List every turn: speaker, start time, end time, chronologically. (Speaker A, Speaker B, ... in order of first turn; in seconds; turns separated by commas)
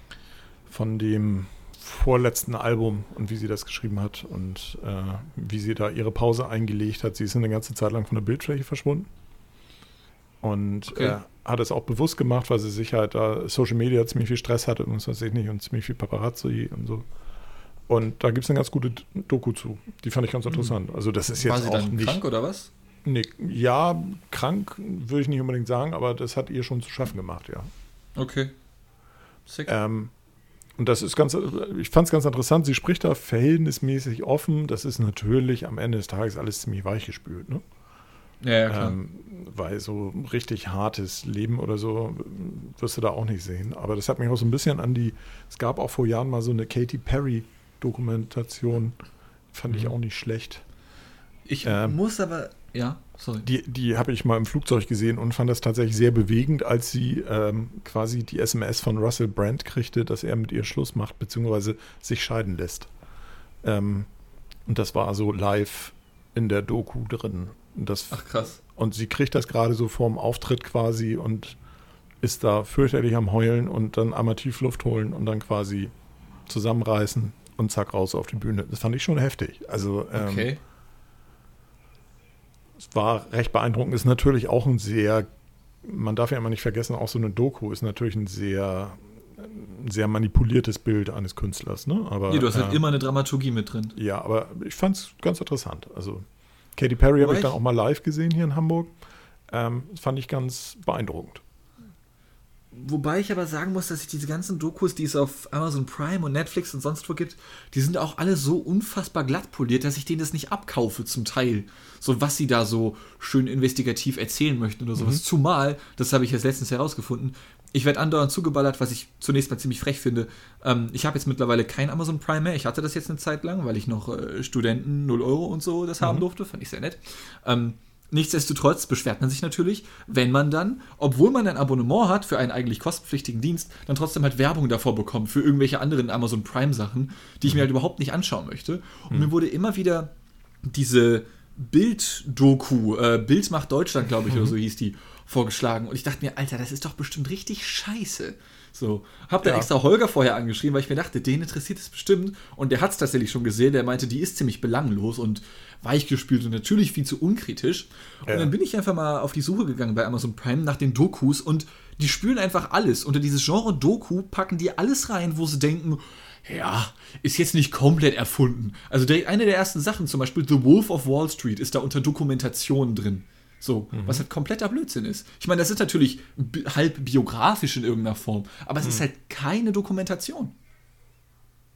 Speaker A: 0.7-9.1, Speaker A: 10.4-17.1, Speaker B: 10.9-11.2, Speaker A: 17.9-22.2, Speaker B: 21.4-22.7, Speaker A: 23.1-27.7, Speaker B: 28.2-28.5, Speaker B: 29.5-29.7, Speaker A: 29.7-30.1, Speaker A: 30.8-37.6, Speaker B: 38.4-39.0, Speaker A: 38.7-49.0, Speaker A: 49.5-50.6, Speaker B: 51.5-53.5, Speaker A: 51.6-52.0, Speaker A: 53.4-62.9, Speaker A: 63.6-64.1, Speaker A: 64.7-71.6, Speaker B: 68.1-68.6, Speaker A: 72.2-75.9, Speaker A: 76.5-80.5, Speaker B: 80.1-80.6, Speaker A: 82.8-85.3, Speaker A: 85.8-92.8, Speaker B: 92.3-94.0, Speaker A: 94.0-98.9, Speaker B: 97.2-97.5, Speaker A: 99.5-101.4, Speaker B: 102.7-140.1, Speaker A: 115.0-115.2, Speaker A: 126.0-126.3, Speaker B: 140.6-180.5, Speaker A: 149.4-149.7, Speaker A: 158.3-158.5, Speaker A: 173.9-174.3